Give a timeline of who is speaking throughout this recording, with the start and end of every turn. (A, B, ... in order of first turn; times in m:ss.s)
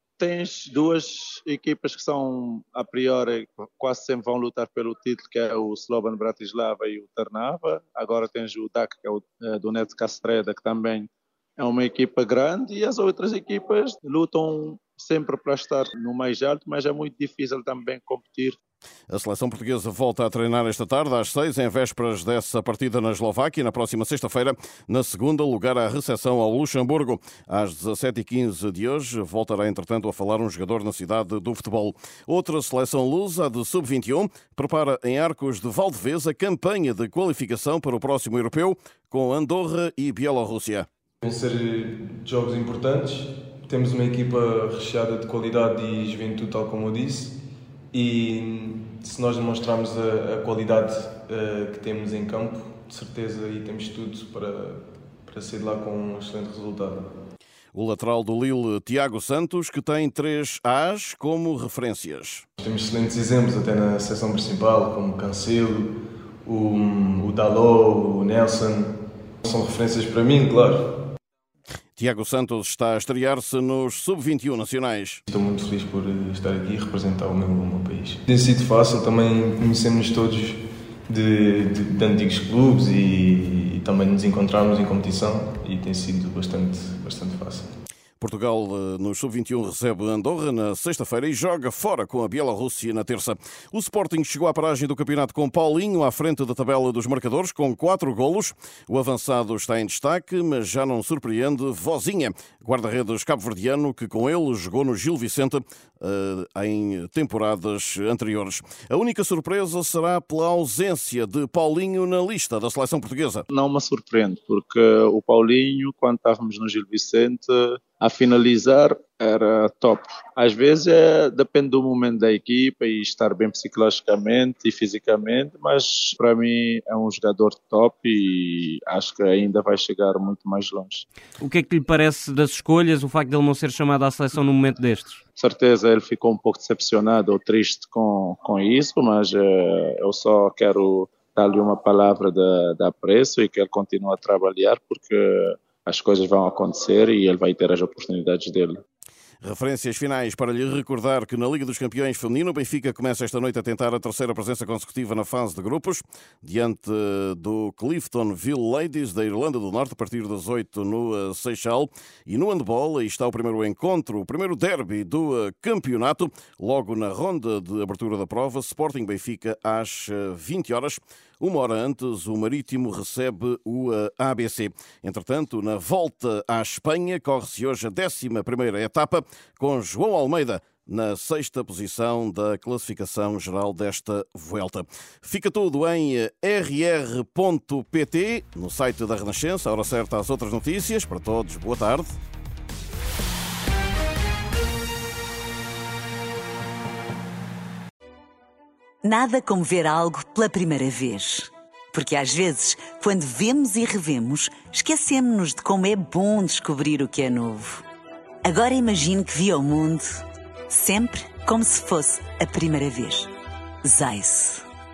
0:00.2-0:18.6 A
0:19.1-0:40.9 B
0:41.2-0:47.4 C
0:47.9-0:57.0 C
0:57.7-1:02.4 B
1:02.6-1:05.9 C
1:06.4-1:10.8 C
1:12.0-1:15.2 B
1:15.3-1:27.7 C
1:28.2-1:53.4 B
1:53.5-2:11.0 A
2:11.4-2:15.2 D
2:15.4-2:28.8 A
2:29.4-3:12.2 B
3:19.0-3:27.8 E
3:28.4-3:33.3 E
3:33.8-3:34.6 E